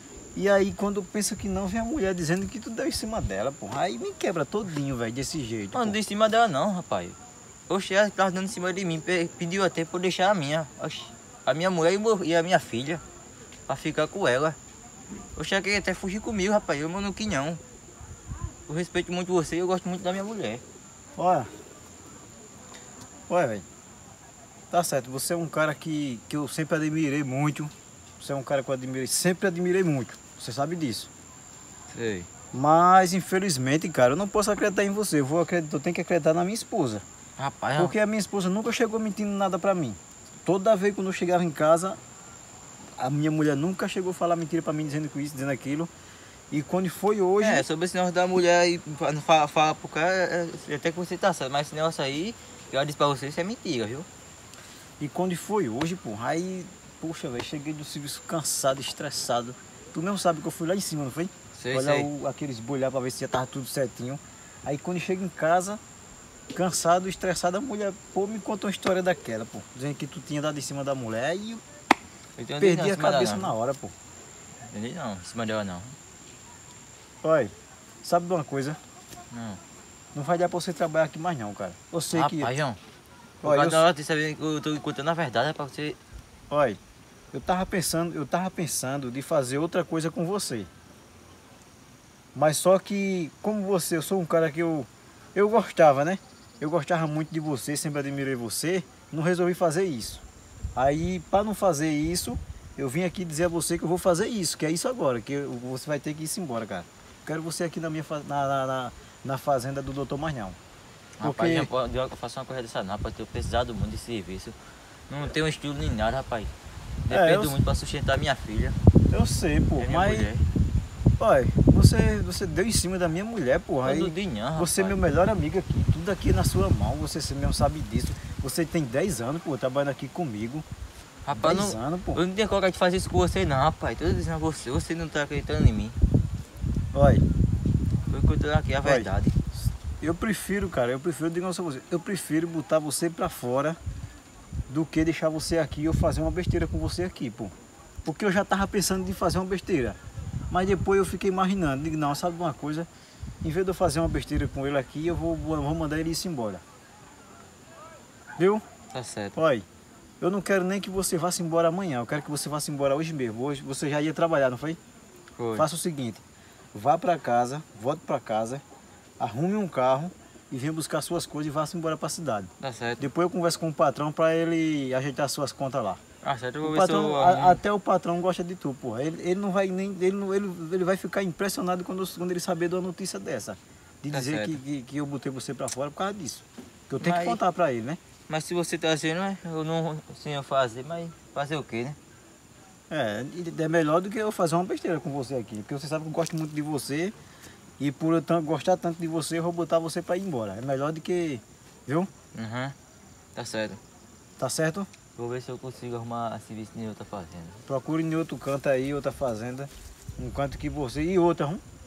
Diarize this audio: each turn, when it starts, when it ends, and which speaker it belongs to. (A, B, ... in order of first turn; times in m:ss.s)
0:00.4-0:06.0 A
0:05.7-0:07.2 B
0:07.7-0:13.0 B
0:13.7-0:14.6 B
0:15.4-0:17.6 B
0:18.7-0:20.6 B
0:21.2-0:21.5 A
0:23.3-0:23.6 A
0:24.7-0:31.1 A
0:31.9-0:32.3 B
0:32.5-0:37.0 A
0:37.4-0:37.9 B
0:37.8-0:42.0 A
0:43.0-0:45.9 A
0:46.5-0:47.7 A
0:47.4-0:54.1 B
0:55.0-1:05.8 A
1:01.6-1:02.1 B
1:06.5-1:11.6 A
1:12.4-1:13.5 B
1:12.6-1:13.9 A
1:14.7-1:16.0 B
1:17.2-1:17.5 A
1:18.0-1:18.8 A
1:19.3-1:19.6 B
1:20.2-1:22.5 A
1:22.1-1:22.8 B
1:23.4-1:23.8 A
1:23.4-1:26.0 B
1:26.5-1:26.8 A
1:27.3-1:30.7 A
1:32.4-1:40.2 A
1:40.8-1:50.6 A
1:51.2-1:54.6 B
1:51.2-1:51.7 A
1:55.1-1:56.5 B
1:57.1-1:58.8 B
1:57.1-1:57.5 A
1:59.1-2:00.3 A
1:59.8-2:00.5 B
2:01.2-2:10.6 A
2:03.8-2:05.0 B
2:11.3-2:16.0 B
2:11.4-2:12.2 A
2:16.9-2:17.2 A
2:18.1-2:19.4 B
2:20.0-2:23.8 A
2:24.7-2:27.5 A
2:28.0-2:30.0 A
2:30.5-2:32.9 A
2:33.4-2:36.6 A
2:38.4-2:38.6 A
2:38.9-2:39.4 B
2:39.4-2:39.7 A
2:40.2-2:44.8 A
2:45.4-2:45.7 B
2:45.6-2:46.2 A
2:46.8-2:48.6 A
2:49.2-2:56.0 A
2:52.6-2:53.0 B
2:56.2-2:57.6 B
2:56.6-3:08.0 A
3:04.1-3:04.6 B
3:07.0-3:07.4 B
3:08.3-3:12.0 B
3:12.9-3:17.1 A
3:17.8-3:22.1 A
3:22.4-3:22.8 B
3:23.4-3:23.8 B
3:24.4-3:24.9 A
3:25.2-3:27.6 B
3:27.7-3:31.6 A